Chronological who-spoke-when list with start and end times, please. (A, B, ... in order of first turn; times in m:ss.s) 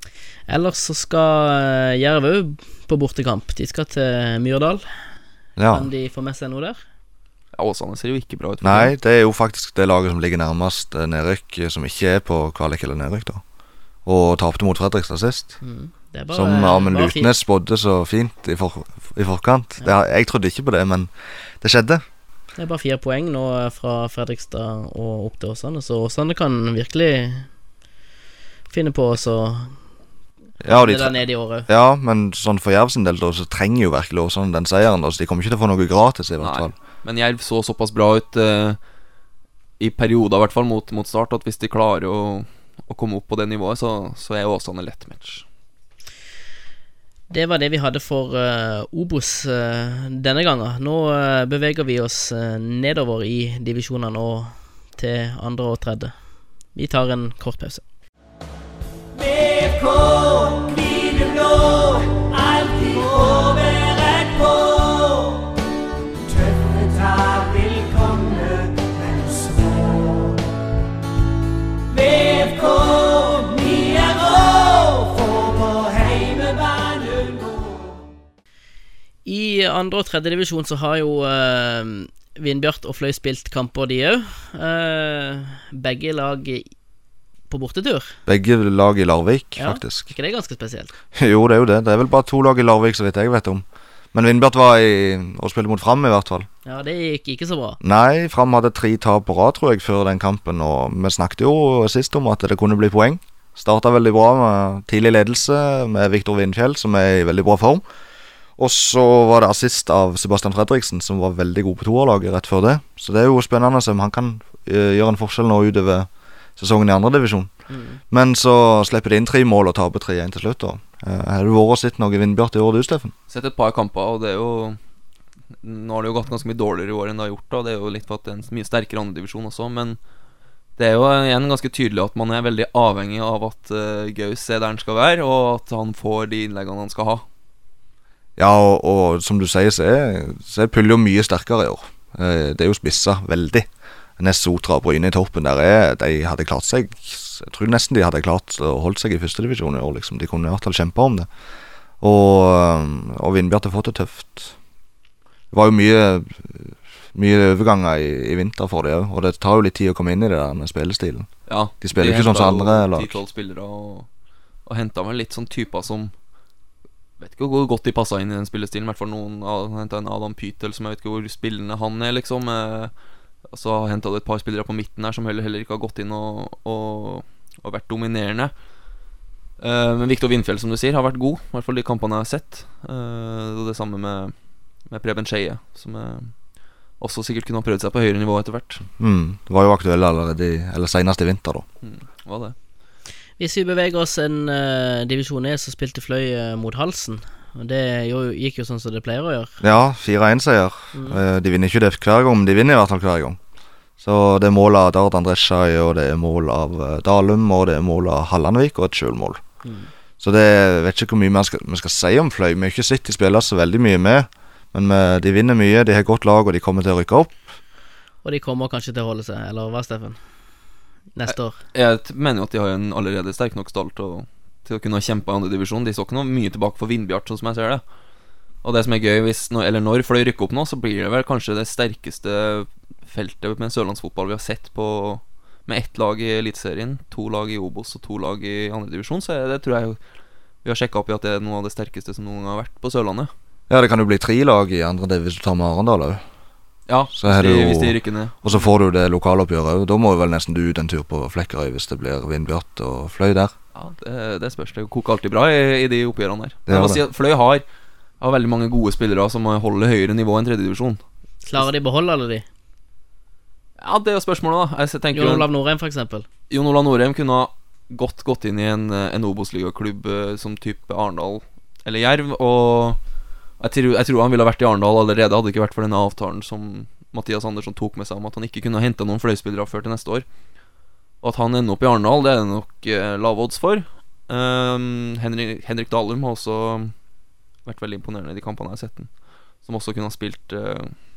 0:00.5-0:04.8 A
0:05.6-0:05.9 B
0:05.7-0:06.8 A
0:07.6-0:08.9 C
0:08.6-0:13.4 B
0:14.0-0:15.6 B
0:15.6-0:17.3 A
0:16.3-0:21.1 B
0:21.6-0:22.0 B
0:22.6-0:27.5 A
0:28.7-0:29.8 A
0:30.6-0:36.7 B
0:30.6-0:31.7 A
0:36.4-0:38.8 C
0:39.8-0:45.4 C
0:47.3-0:56.1 A
0:56.7-0:57.8 A
0:59.2-1:05.5 D
1:06.3-1:10.3 D
1:11.9-1:17.9 D
1:19.2-1:26.7 A
1:27.5-1:28.2 A
1:28.2-1:30.1 B
1:29.6-1:30.9 A
1:31.1-1:36.5 B
1:36.6-1:37.8 A
1:37.8-1:47.8 B
1:48.6-1:57.5 B
1:57.7-1:58.0 A
1:58.1-2:03.1 B
2:03.3-2:04.8 C
2:05.6-2:10.0 C
2:10.8-2:17.2 C
2:18.4-2:23.7 B
2:24.2-2:31.3 B
2:32.0-2:34.6 B
2:35.5-2:41.3 B
2:41.5-2:44.1 C
2:41.8-2:43.2 B
2:44.6-2:46.1 C
2:47.2-2:52.9 C
2:53.5-2:58.5 C
2:59.6-3:04.3 C
3:04.8-3:06.3 C
3:07.0-3:08.8 C
3:09.0-3:11.6 B
3:11.8-3:12.5 C
3:13.4-3:19.5 A
3:19.6-3:23.4 B
3:20.9-3:21.2 A
3:24.0-3:29.4 B
3:29.6-3:29.9 A
3:30.2-3:37.5 B
3:38.2-3:40.2 A
3:41.1-3:41.6 A
3:41.3-3:47.8 C
3:48.6-4:00.0 C
4:00.6-4:03.3 C
4:03.7-4:06.2 B
4:06.9-4:08.5 C
4:07.1-4:13.5 B
4:13.7-4:17.6 C
4:16.7-4:17.0 B
4:18.2-4:21.0 C
4:21.4-4:22.4 A
4:23.8-4:25.5 C
4:25.1-4:26.3 A
4:26.5-4:33.0 C
4:33.6-4:40.2 C
4:41.2-4:46.9 C
4:47.6-4:49.1 C
4:49.6-4:50.9 C